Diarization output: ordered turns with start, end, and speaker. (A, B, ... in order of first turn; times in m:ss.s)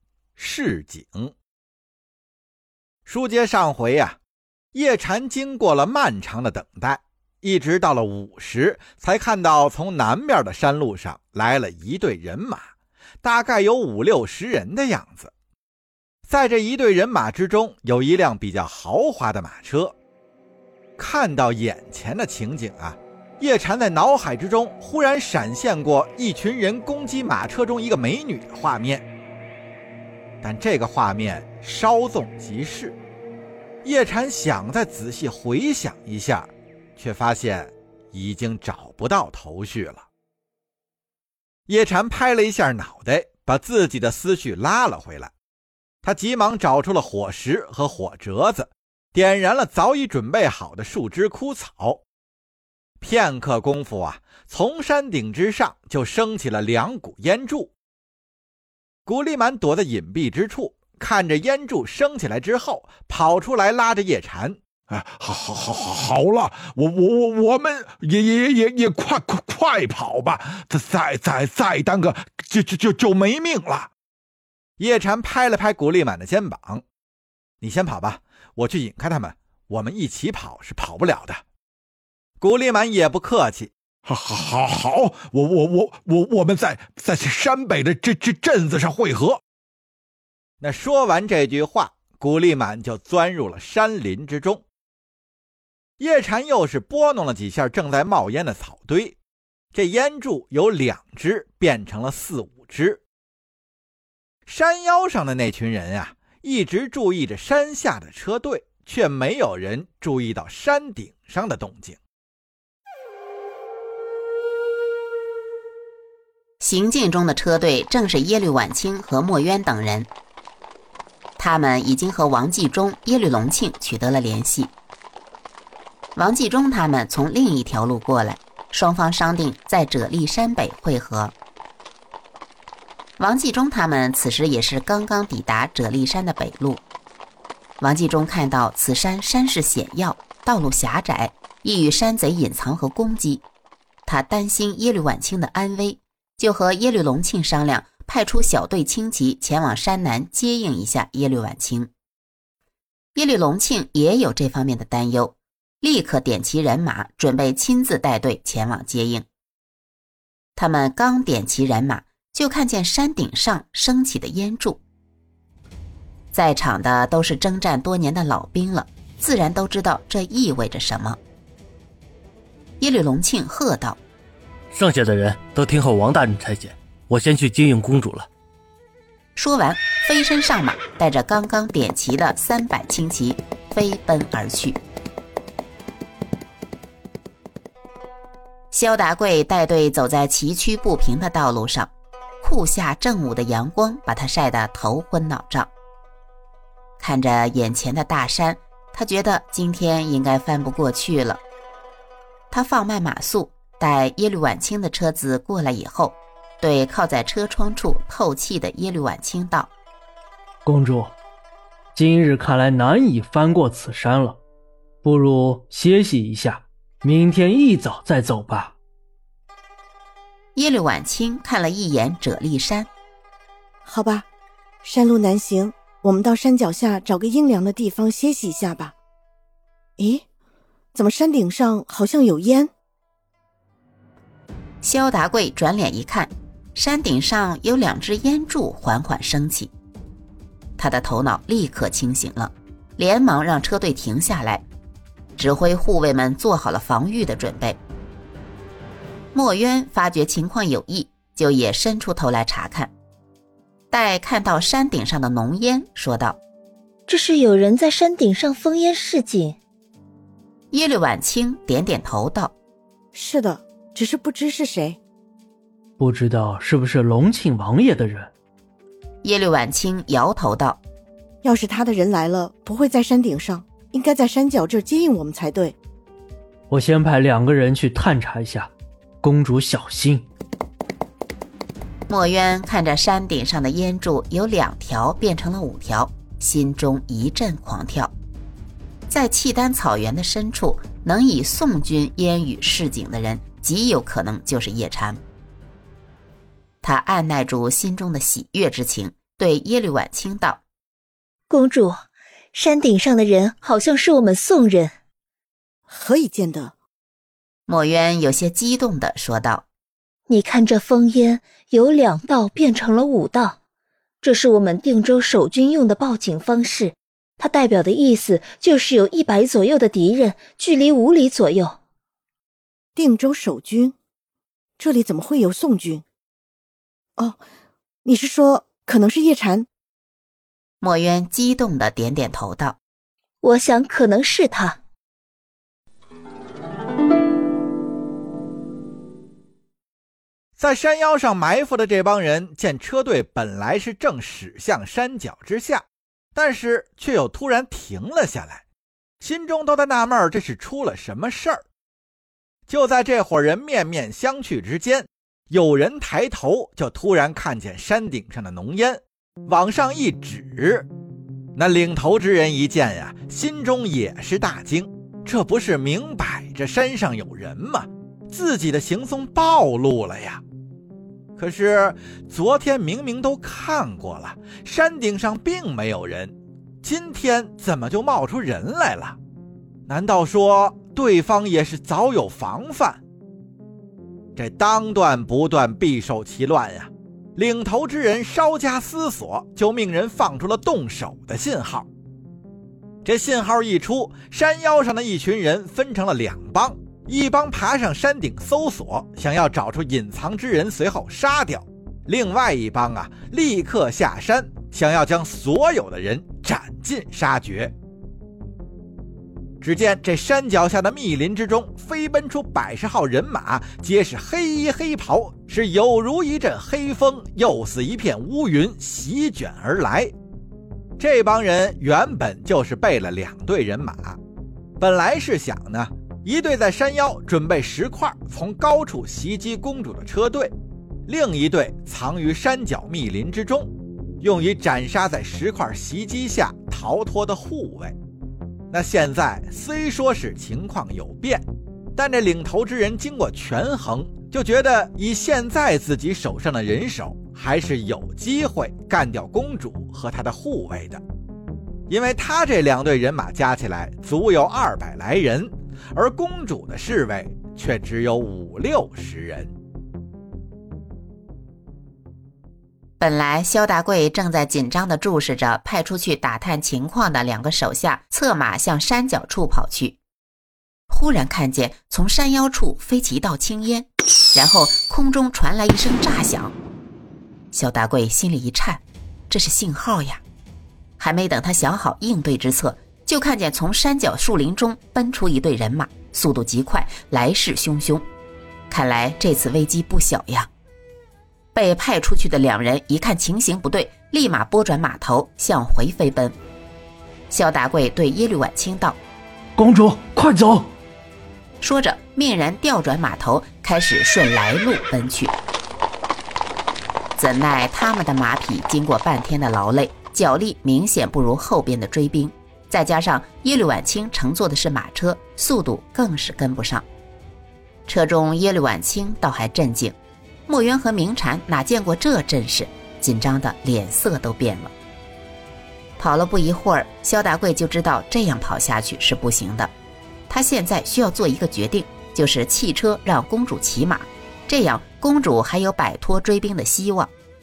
0:00.4-0:01.3 A
0:03.0-0:04.2 A
0:04.7-0:12.7 A
0:13.2-0:15.3 A
0:16.3-0:20.0 A
0:21.0-0:29.0 A
0:30.4-0:33.0 A
0:33.8-0:40.1 A
0:41.7-0:45.3 A
0:46.0-0:52.0 A
0:53.0-0:57.7 A
0:59.1-1:04.6 A
1:04.9-1:13.9 B
1:14.8-1:16.8 A
1:17.6-1:21.4 A
1:22.4-1:23.7 A
1:24.1-1:29.4 B
1:30.6-1:34.6 A
1:36.0-1:39.2 A
1:39.7-1:43.0 A
1:44.5-1:52.0 A
1:56.6-2:00.1 C
2:01.4-2:04.7 C
2:06.2-2:11.3 C
2:13.2-2:16.8 C
2:17.8-2:23.4 C
2:24.1-2:31.9 C
2:33.2-2:39.2 C
2:40.6-2:44.8 C
2:46.3-2:51.2 C
2:52.8-2:54.0 C
2:54.7-2:58.3 D
2:59.4-3:04.8 C
3:08.7-3:11.9 C
3:12.4-3:15.7 C
3:17.0-3:21.4 C
3:22.5-3:29.7 C
3:30.6-3:31.2 E
3:32.0-3:34.4 E
3:35.0-3:38.8 E
3:40.6-3:42.9 C
3:43.8-3:44.3 F
3:44.8-3:49.0 F
3:50.0-3:50.2 F
3:50.9-3:52.7 F
3:54.8-3:59.7 C
4:00.8-4:04.6 C
4:05.4-4:07.8 C
4:09.3-4:12.9 C
4:13.9-4:16.4 C
4:17.1-4:19.6 G
4:20.7-4:22.5 C
4:23.1-4:25.0 F
4:26.0-4:28.3 E
4:29.2-4:30.8 C
4:31.4-4:35.8 F
4:36.7-4:40.2 E
4:42.1-4:48.1 C
4:49.1-4:55.2 C
4:56.8-5:00.6 C
5:01.5-5:02.0 G
5:02.5-5:04.9 G
5:05.9-5:06.8 F
5:07.7-5:09.6 C
5:10.3-5:13.6 G
5:14.2-5:21.8 G
5:23.0-5:24.0 F
5:24.8-5:26.0 F
5:28.0-5:29.7 F
5:30.8-5:32.8 C
5:33.4-5:34.8 G
5:40.6-5:45.8 A
5:46.4-5:48.6 A
5:49.2-5:51.6 A
5:52.7-6:00.9 A
6:01.6-6:10.4 A
6:11.4-6:19.2 A
6:19.9-6:23.0 A
6:24.4-6:31.9 A
6:33.0-6:47.7 A
6:49.6-7:00.1 A
7:01.0-7:04.2 A
7:04.8-7:10.5 A
7:11.1-7:18.0 A
7:18.7-7:21.4 A
7:22.0-7:31.0 A
7:31.9-7:39.5 A
7:43.0-7:50.0 C
7:50.9-7:56.5 C
7:57.5-8:00.2 C
8:01.0-8:08.0 C
8:08.7-8:10.5 C
8:11.6-8:16.4 C
8:17.3-8:19.0 C
8:19.6-8:20.7 E
8:21.6-8:25.3 C
8:27.2-8:36.8 C
8:37.9-8:40.0 C
8:40.5-8:44.7 C
8:46.0-8:49.7 C
8:50.3-8:57.1 C